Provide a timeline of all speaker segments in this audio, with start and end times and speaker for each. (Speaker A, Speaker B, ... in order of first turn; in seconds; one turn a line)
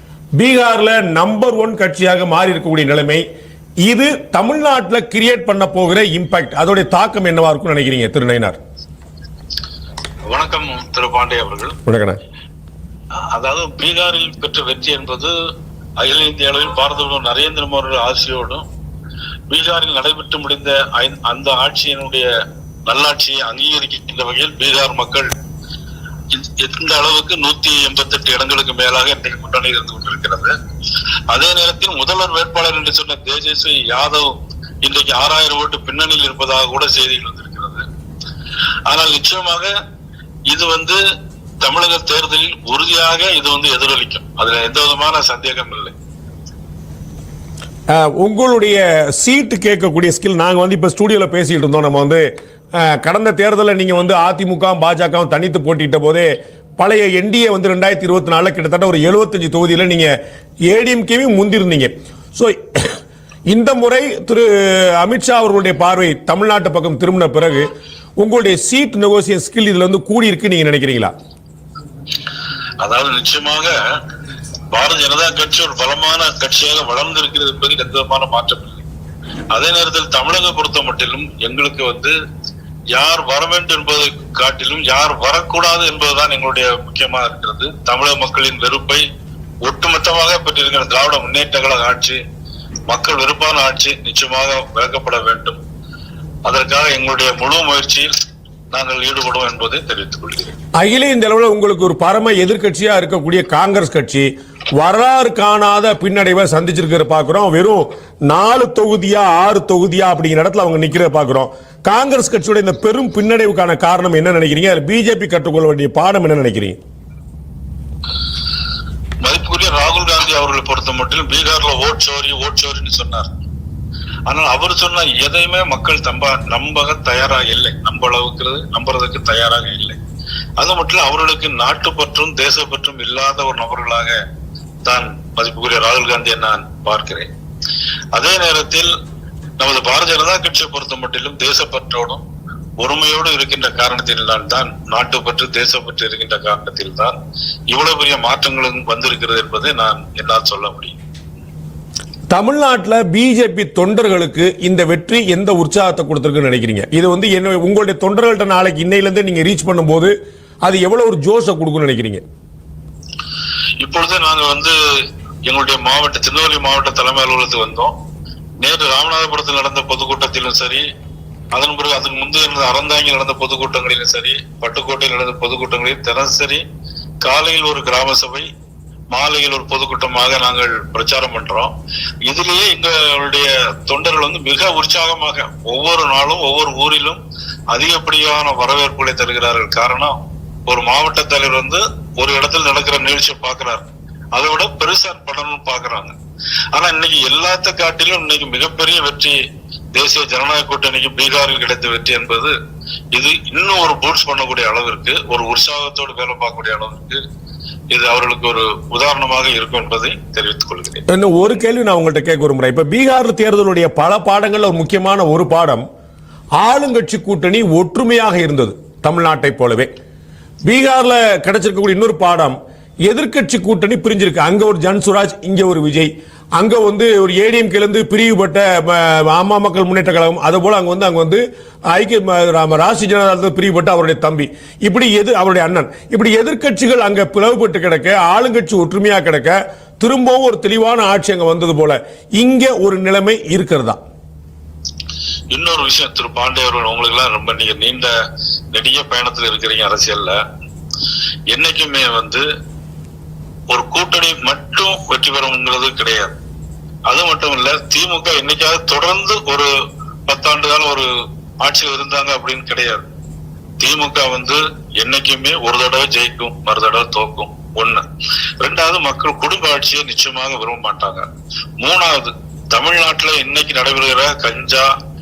Speaker A: 0.4-3.2
Speaker A: 3.8-8.6
Speaker B: 10.3-11.8
Speaker A: 11.9-12.2
Speaker B: 13.3-15.3
Speaker B: 16.0-18.6
Speaker B: 19.5-22.3
Speaker B: 22.9-25.3
Speaker B: 26.3-30.5
Speaker B: 31.3-37.8
Speaker B: 38.9-39.7
Speaker B: 40.5-41.0
Speaker B: 41.6-45.9
Speaker A: 47.9-60.1
Speaker A: 60.7-63.0
Speaker A: 63.5-71.1
Speaker B: 72.8-73.7
Speaker B: 74.7-78.8
Speaker B: 79.5-82.1
Speaker B: 82.9-89.0
Speaker B: 89.6-92.2
Speaker B: 92.9-95.6
Speaker B: 96.5-98.1
Speaker B: 98.7-100.5
Speaker A: 100.8-104.3
Speaker A: 104.8-116.8
Speaker B: 119.2-123.3
Speaker B: 124.3-130.0
Speaker B: 130.6-134.2
Speaker B: 134.9-137.3
Speaker B: 138.1-138.9
Speaker B: 139.6-142.2
Speaker B: 142.8-147.1
Speaker B: 147.7-151.0
Speaker A: 152.3-160.1
Speaker A: 160.6-162.2
Speaker B: 163.8-164.7
Speaker B: 165.5-167.9
Speaker B: 168.6-170.8
Speaker B: 171.5-176.6
Speaker B: 177.2-178.5
Speaker B: 179.1-181.7
Speaker B: 182.3-187.2
Speaker B: 187.7-190.2
Speaker B: 190.7-193.8
Speaker B: 194.3-196.2
Speaker B: 196.7-199.4
Speaker B: 199.9-202.5
Speaker B: 203.1-207.2
Speaker B: 207.9-211.1
Speaker A: 211.1-215.8
Speaker A: 216.6-219.9
Speaker A: 220.7-244.0
Speaker B: 245.5-248.1
Speaker B: 248.7-250.4
Speaker B: 251.5-252.4
Speaker B: 253.7-256.4
Speaker B: 257.1-259.7
Speaker B: 260.3-261.1
Speaker B: 261.6-263.1
Speaker B: 263.8-268.0
Speaker B: 268.6-271.2
Speaker B: 271.8-274.9